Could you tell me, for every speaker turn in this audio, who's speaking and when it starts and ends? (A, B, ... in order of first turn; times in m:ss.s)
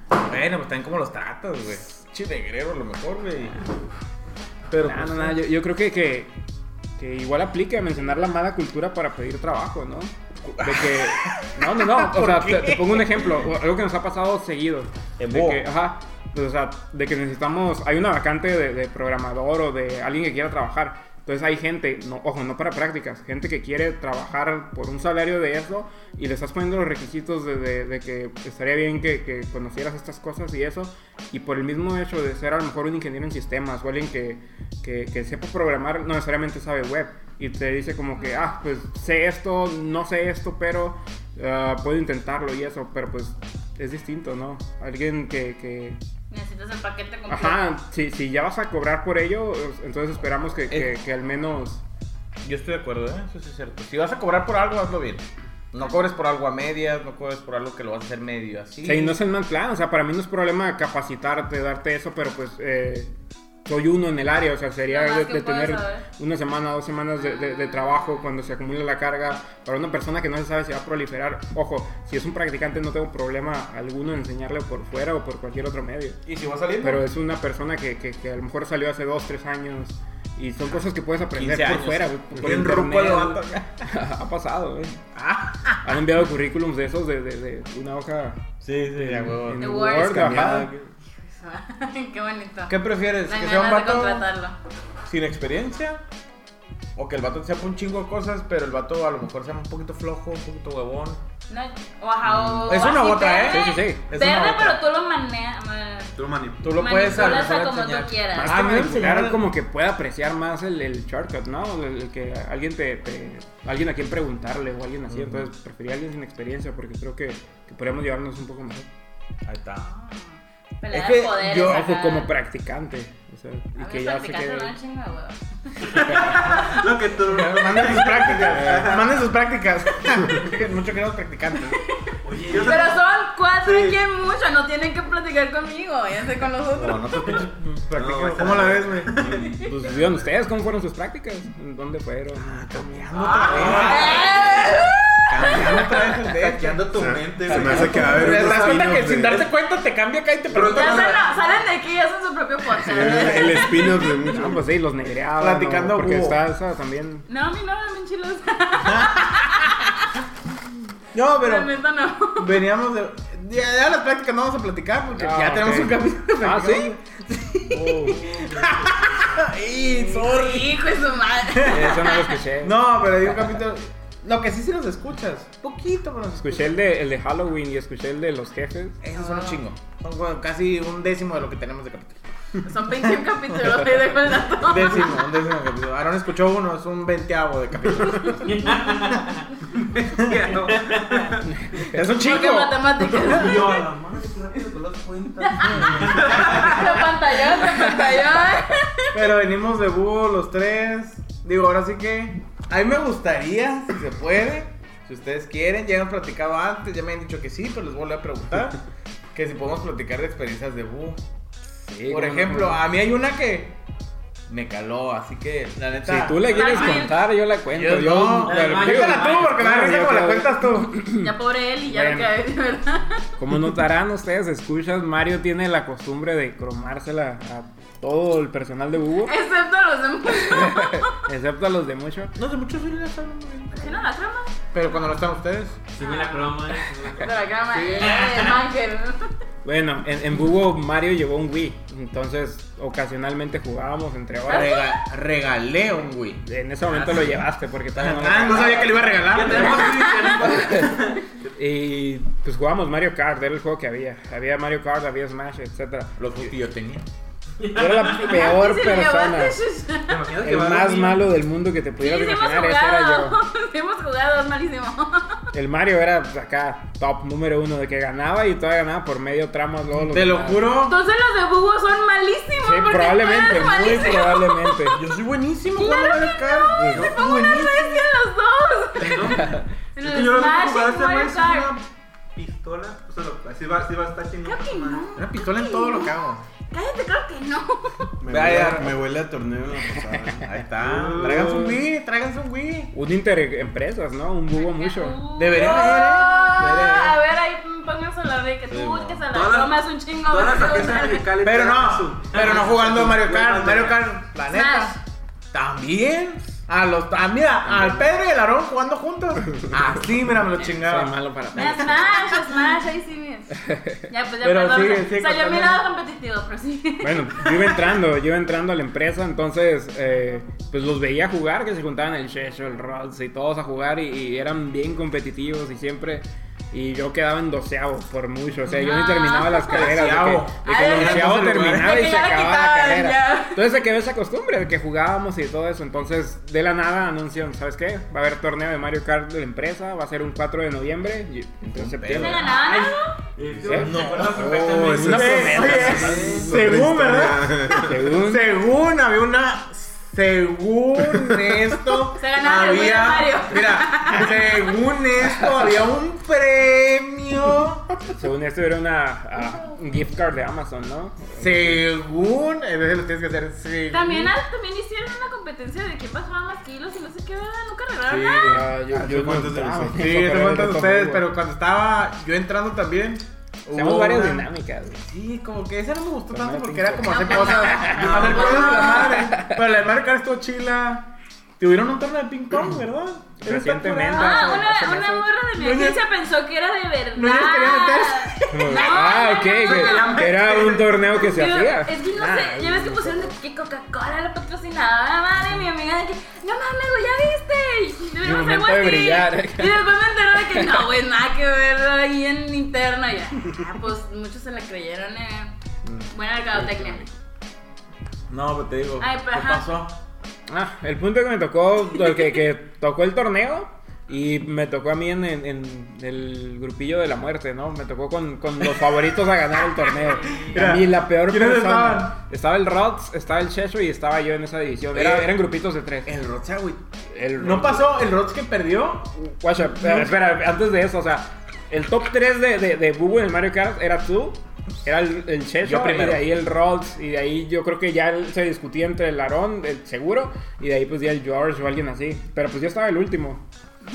0:00.2-0:03.6 A
0:04.7-0:05.4 A
0:04.8-0:06.3 B
0:07.0-0:46.0 B
0:10.4-0:13.4 A
0:15.2-0:15.6 A
0:38.1-0:38.6 C
0:46.3-0:47.6 C
0:47.3-0:51.8 B
0:52.4-0:59.2 A
0:58.8-1:03.1 B
1:03.6-1:16.2 B
1:04.9-1:06.0 C
1:07.2-1:08.2 C
1:16.2-1:17.1 A
1:16.8-1:25.0 B
1:21.3-1:23.9 A
1:25.1-1:25.9 A
1:25.8-1:30.7 B
1:28.6-1:29.8 A
1:29.6-1:30.4 C
1:30.0-1:30.9 D
1:31.2-1:32.8 C
1:32.7-1:34.3 A
1:33.3-1:34.6 C
1:35.1-1:36.0 A
1:37.0-1:41.2 A
1:41.5-1:46.2 C
1:42.4-1:44.8 A
1:43.4-1:44.0 B
1:46.2-1:47.4 E
1:46.6-1:49.4 A
1:46.8-1:48.7 C
1:48.3-1:58.9 B
1:55.1-1:55.5 A
1:59.4-1:59.9 A
1:59.8-2:00.2 C
2:00.8-2:02.3 C
2:00.9-2:01.8 A
2:01.6-2:04.7 B
2:03.8-2:06.3 C
2:06.0-2:09.3 E
2:06.2-2:06.6 A
2:07.2-2:11.8 A
2:11.7-2:12.0 C
2:12.2-2:14.0 E
2:12.2-2:13.0 F
2:12.6-2:17.4 C
2:16.7-2:19.6 A
2:17.9-2:20.2 E
2:19.3-2:19.7 C
2:19.6-2:24.2 B
2:22.4-2:26.9 A
2:23.3-2:26.2 C
2:23.4-2:24.5 E
2:26.2-2:29.5 E
2:26.9-2:29.4 D
2:27.4-2:31.2 A
2:30.5-2:31.6 E
2:30.7-2:34.2 C
2:32.8-2:37.2 B
2:32.9-2:34.6 D
2:35.4-2:36.4 A
2:37.3-2:40.1 C
2:38.9-2:39.7 A
2:41.1-2:41.7 A
2:41.4-2:42.6 C
2:42.4-2:50.8 A
2:45.2-2:46.9 B
2:47.7-2:48.6 B
2:49.8-2:52.4 C
2:51.5-2:51.9 A
2:51.7-2:53.6 B
2:52.6-2:56.8 A
2:56.4-2:59.0 B
2:59.0-3:02.2 A
2:59.2-2:59.6 C
3:02.6-3:05.2 C
3:03.0-3:03.9 A
3:04.5-3:08.8 A
3:07.9-3:08.9 C
3:08.4-3:09.3 F
3:09.7-3:11.4 E
3:10.2-3:10.6 A
3:11.5-3:12.0 B
3:11.9-3:13.6 A
3:12.1-3:13.9 C
3:13.2-3:17.0 F
3:14.9-3:17.0 A
3:15.4-3:19.2 C
3:16.2-3:16.7 E
3:19.1-3:28.8 A
3:29.3-3:31.2 A
3:31.8-3:32.8 B
3:32.1-3:33.8 A
3:34.5-3:37.2 A
3:36.0-3:41.3 B
3:36.4-3:37.2 C
3:37.7-3:40.9 A
3:38.4-3:39.5 F
3:41.1-3:43.2 C
3:41.9-3:42.3 B
3:43.4-3:49.3 B
3:49.2-3:51.1 C
3:50.4-3:52.4 B
3:52.4-3:54.1 A
3:53.7-3:54.5 C
3:54.7-3:55.9 A
3:56.0-3:58.4 F
3:56.0-3:59.3 C
3:59.6-4:04.7 B
4:04.5-4:05.0 C
4:04.5-4:07.4 A
4:06.4-4:09.8 B
4:07.9-4:10.0 A
4:08.6-4:11.2 F
4:10.0-4:10.4 C
4:10.4-4:11.0 B
4:11.5-4:16.2 B
4:16.2-4:17.0 A
4:17.6-4:18.4 F
4:17.7-4:19.6 B
4:18.0-4:20.3 C
4:20.1-4:21.3 E
4:20.4-4:23.4 B
4:22.0-4:25.4 C
4:25.5-4:30.7 B
4:29.9-4:31.0 A
4:30.8-4:34.9 C
4:32.6-4:35.0 B
4:34.9-4:38.0 A
4:35.8-4:41.8 C
4:36.8-4:37.1 D
4:36.9-4:37.3 E
4:39.0-4:45.1 E
4:44.4-4:48.1 C
4:45.2-4:46.4 A
4:48.2-4:50.5 D
4:48.3-4:49.0 A
4:50.4-4:52.9 A
4:50.8-4:51.8 E
4:52.9-4:55.2 B
4:54.5-5:01.3 C
4:55.4-4:57.2 A
4:58.7-4:59.2 A
4:59.3-5:04.1 E
5:01.4-5:05.0 A
5:04.4-5:05.0 C
5:05.5-5:12.3 A
5:10.6-5:12.0 B
5:11.5-5:18.0 C
5:13.7-5:14.0 B
5:14.4-5:15.8 A
5:17.0-5:42.5 B
5:28.7-5:29.9 C
5:29.6-5:32.1 A
5:30.6-5:33.6 C
5:41.7-5:42.5 A
5:42.2-5:43.2 C
5:42.4-5:46.3 F
5:43.6-5:46.6 B
5:43.6-5:48.0 D
5:43.7-5:57.9 A
5:47.8-5:48.5 B
5:52.2-5:54.6 C
5:58.0-6:01.8 B
6:01.4-6:04.3 A
6:03.9-6:08.7 C
6:08.0-6:24.7 A
6:08.4-6:11.2 B
6:08.9-6:10.0 D
6:13.7-6:15.0 B
6:16.3-6:19.6 B
6:17.1-6:19.3 C
6:17.9-6:19.0 E
6:23.4-6:25.3 B
6:24.1-6:30.3 C
6:25.6-6:26.0 A
6:27.1-6:28.9 A
6:28.5-6:32.0 B
6:29.5-6:31.2 E
6:31.2-6:45.5 C
6:32.2-6:33.1 A
6:38.2-6:39.9 B
6:40.4-6:40.8 B
6:46.1-6:47.0 C
6:46.5-6:47.1 B
6:48.3-6:50.0 A
6:49.0-6:49.7 C
6:50.5-7:06.1 B
7:00.3-7:02.2 A
7:04.9-7:05.4 A
7:06.0-7:06.8 A
7:07.1-7:07.9 B
7:07.4-7:09.1 A
7:09.2-7:23.4 B
7:09.7-7:10.1 A
7:15.6-7:16.3 A